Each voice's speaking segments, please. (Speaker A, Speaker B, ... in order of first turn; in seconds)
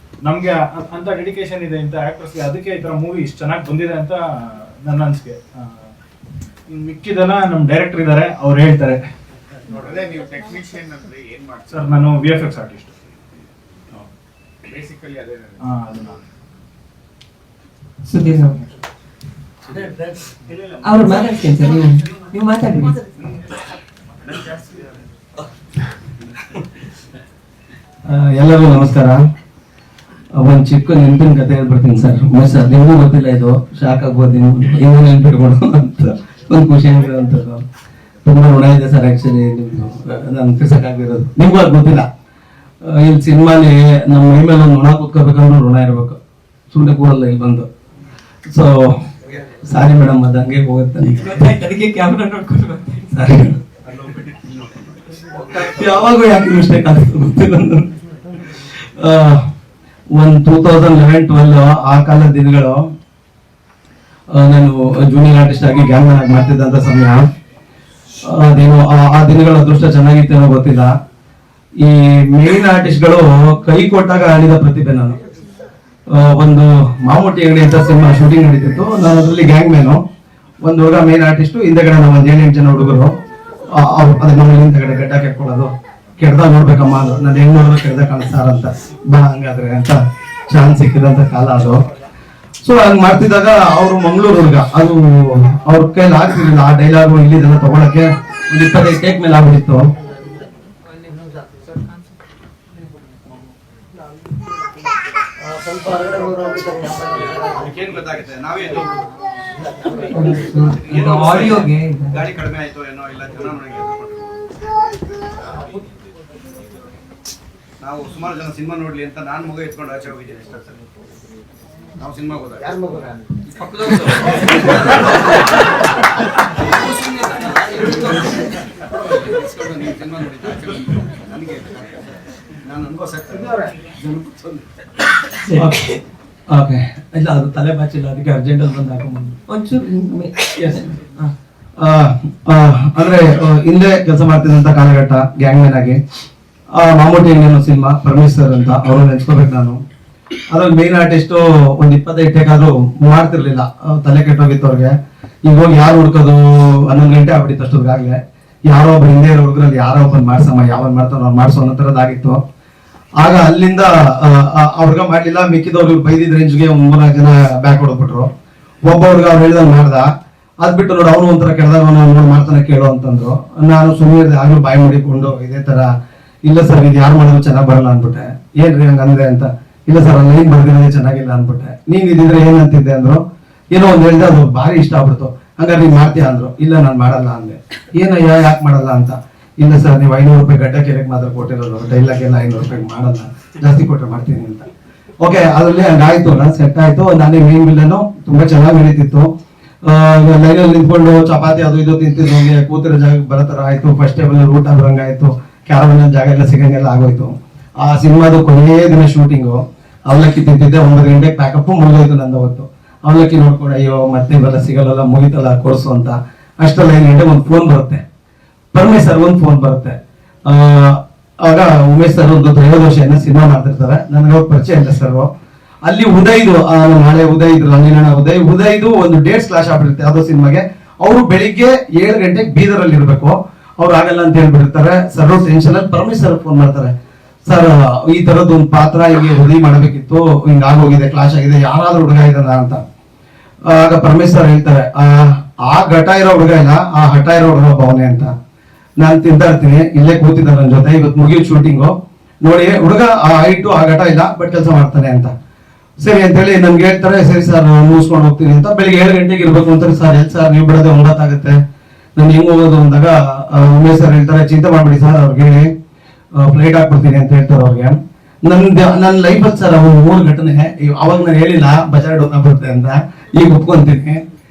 Speaker A: 0.2-5.9, 6.7-9.0, 11.7-12.9, 15.6-16.2
Speaker B: 9.7-12.1, 14.7-15.7
Speaker C: 18.1-18.6, 20.8-23.0, 51.2-53.2, 110.1-112.2, 135.5-136.0, 139.5-141.3
Speaker D: 20.3-20.9, 24.4-24.6, 105.9-109.0, 110.0-114.3, 117.8-120.8, 122.0-123.0, 123.6-125.4, 126.9-128.5, 129.3-131.9, 132.7-134.3
Speaker E: 28.1-29.2, 30.4-37.6, 38.2-42.1, 42.9-46.2, 46.7-47.7, 48.5-51.5, 53.1-53.6, 55.4-57.9, 59.0-59.4, 60.1-62.8, 64.3-67.2, 68.3-70.9, 71.8-75.2, 76.1-80.0, 80.6-83.1, 83.8-90.0, 90.5-91.8, 92.6-99.9, 135.6-136.0, 136.5-139.4, 141.8-146.0, 146.8-149.8, 150.5-154.9, 155.4-162.4, 163.2-168.3, 168.8-170.1, 170.6-175.9, 176.5-194.7, 195.2-199.3, 199.9-218.0, 218.7-220.0, 220.5-225.3, 225.8-236.9, 237.5-242.8, 243.7-248.3, 249.0-255.3, 256.0-261.6, 262.2-265.7, 266.4-274.2